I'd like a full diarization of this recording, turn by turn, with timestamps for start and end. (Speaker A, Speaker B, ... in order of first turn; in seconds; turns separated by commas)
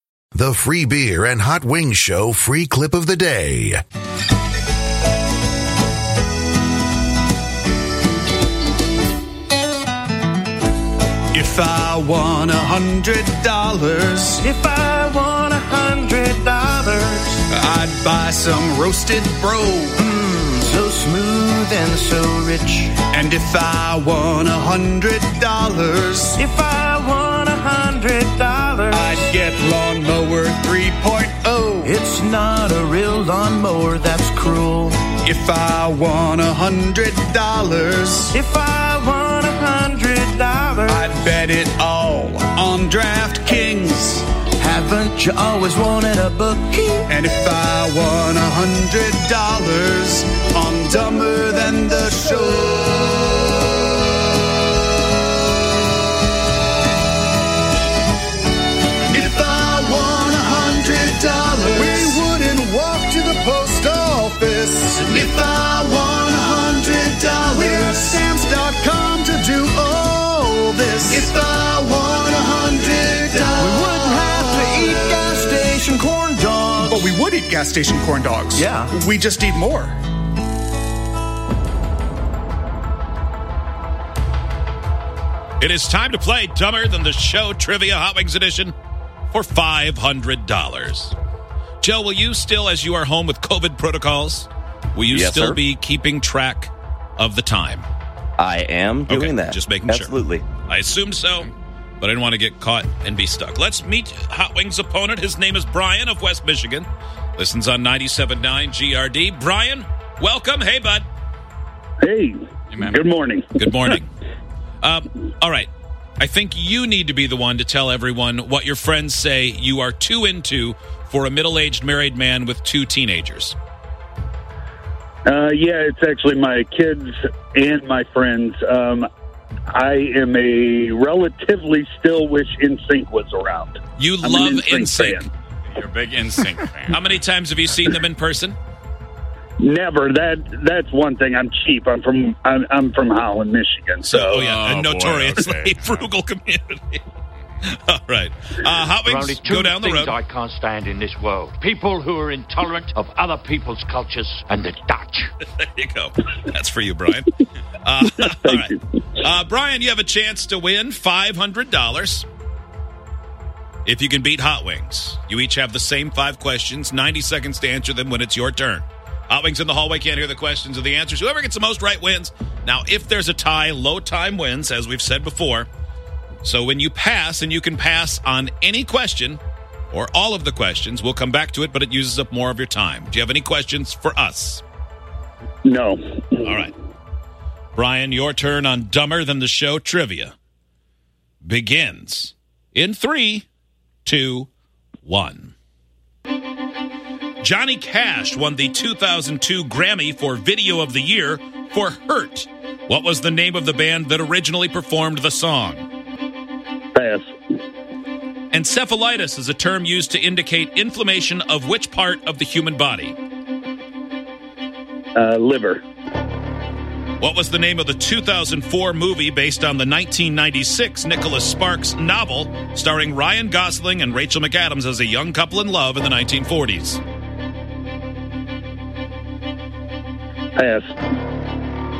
Speaker A: 0.3-3.8, Speaker B: 11.3-14.4, Speaker C: 14.4-17.4, Speaker B: 17.5-20.0, Speaker C: 20.0-22.9, Speaker B: 23.1-26.4, Speaker C: 26.4-29.0, Speaker B: 28.9-31.9, Speaker C: 31.9-35.0, Speaker B: 35.2-38.4, Speaker C: 38.3-41.0, Speaker B: 40.8-44.2, Speaker C: 44.6-47.0, Speaker B: 47.1-53.4, Speaker B: 59.1-75.4, Speaker C: 73.6-77.0, Speaker B: 76.8-80.0, Speaker D: 85.6-88.7, Speaker D: 89.3-91.1, Speaker D: 91.8-97.8, Speaker E: 95.1-95.6, Speaker E: 98.4-100.5, Speaker D: 99.1-111.0, Speaker F: 112.0-113.5, Speaker G: 112.7-113.0, Speaker D: 113.5-114.1, Speaker D: 114.8-123.5, Speaker F: 125.2-129.1, Speaker F: 129.7-135.2, Speaker D: 133.9-135.3, Speaker G: 135.7-137.2, Speaker D: 136.9-138.6, Speaker F: 139.6-144.4, Speaker D: 144.0-147.0, Speaker G: 144.3-146.1, Speaker D: 147.6-150.1, Speaker H: 149.0-155.3, Speaker D: 155.5-157.3, Speaker D: 157.8-162.2, Speaker F: 158.4-158.7, Speaker D: 163.8-175.7, Speaker D: 176.4-179.4, Speaker D: 179.9-184.6, Speaker F: 185.6-186.4, Speaker D: 186.4-186.7, Speaker D: 187.8-190.3, Speaker D: 191.4-193.5, Speaker D: 194.1-194.5, Speaker D: 195.1-195.5, Speaker D: 197.4-205.9, Speaker F: 206.9-207.3, Speaker D: 208.5-213.2, Speaker F: 215.2-215.8, Speaker D: 217.2-227.0, Speaker F: 230.6-230.9